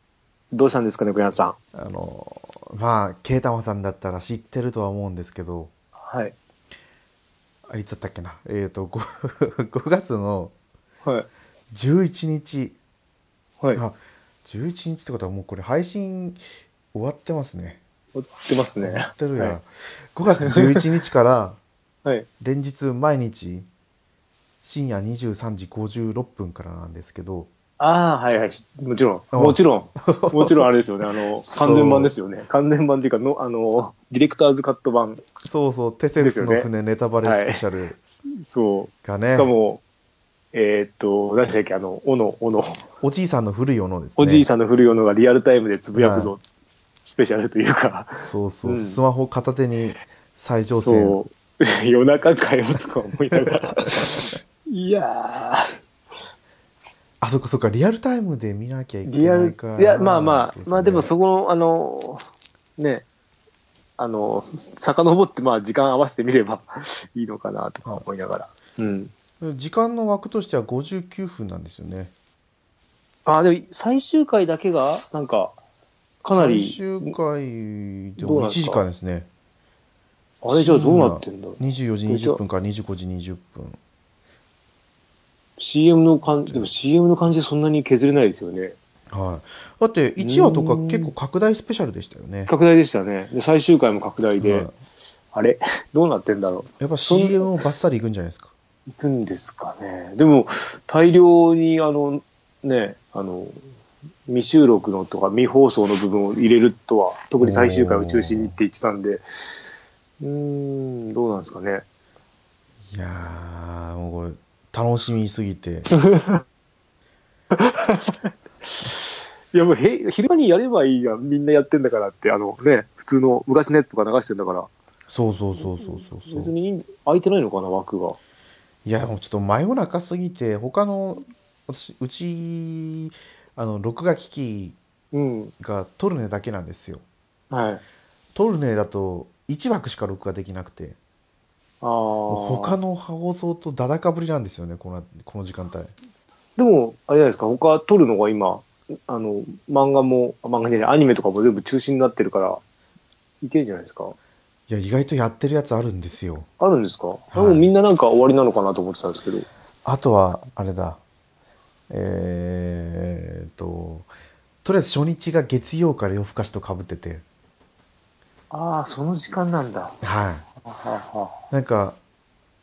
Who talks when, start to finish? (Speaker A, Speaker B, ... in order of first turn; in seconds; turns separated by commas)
Speaker A: 0.5-1.6, Speaker B: 1.7-5.7, Speaker A: 6.0-6.4, Speaker B: 7.7-10.5, Speaker B: 11.7-12.8, Speaker B: 13.8-16.4, Speaker B: 16.9-17.8, Speaker A: 18.1-19.6, Speaker B: 18.8-21.6, Speaker A: 20.4-20.8, Speaker B: 22.4-23.7, Speaker B: 24.6-27.5, Speaker A: 27.8-35.2, Speaker B: 29.3-30.7, Speaker B: 31.6-32.1, Speaker B: 35.5-38.0, Speaker A: 36.2-36.7, Speaker A: 37.2-39.8, Speaker B: 39.0-39.5, Speaker A: 40.5-42.8, Speaker B: 43.0-44.5, Speaker A: 44.2-46.4, Speaker B: 46.0-46.3, Speaker A: 47.0-49.0, Speaker B: 48.2-51.2, Speaker A: 50.7-55.7, Speaker B: 57.2-61.1, Speaker A: 59.0-62.2, Speaker A: 62.8-63.1, Speaker A: 64.0-69.1, Speaker B: 69.4-72.1, Speaker A: 73.3-75.6, Speaker A: 76.2-77.2, Speaker B: 76.3-79.3, Speaker A: 78.2-78.9, Speaker A: 80.4-82.4, Speaker B: 80.5-83.8, Speaker A: 85.6-88.8, Speaker B: 86.4-86.7, Speaker B: 89.1-92.5, Speaker A: 90.2-91.1, Speaker A: 92.5-94.7, Speaker B: 94.4-94.8, Speaker A: 95.3-97.6, Speaker B: 96.8-98.5, Speaker A: 99.0-103.6, Speaker A: 104.3-109.2, Speaker B: 107.4-108.6, Speaker A: 110.2-111.8, Speaker B: 112.9-115.9, Speaker A: 116.1-116.4, Speaker A: 117.6-118.3, Speaker A: 119.5-124.7, Speaker B: 125.1-126.5, Speaker A: 125.6-128.2, Speaker B: 128.8-134.8, Speaker A: 135.1-135.5, Speaker B: 135.6-137.0, Speaker A: 137.5-137.8, Speaker B: 138.3-141.0, Speaker A: 141.8-142.8, Speaker B: 142.3-145.9, Speaker A: 146.6-152.6, Speaker A: 153.4-154.2, Speaker B: 154.7-156.5, Speaker A: 156.6-159.5, Speaker B: 157.3-157.7, Speaker B: 159.8-161.0, Speaker B: 161.9-164.1, Speaker B: 164.6-167.2, Speaker A: 168.5-170.0, Speaker B: 170.0-170.5, Speaker A: 170.6-171.4, Speaker B: 171.5-172.0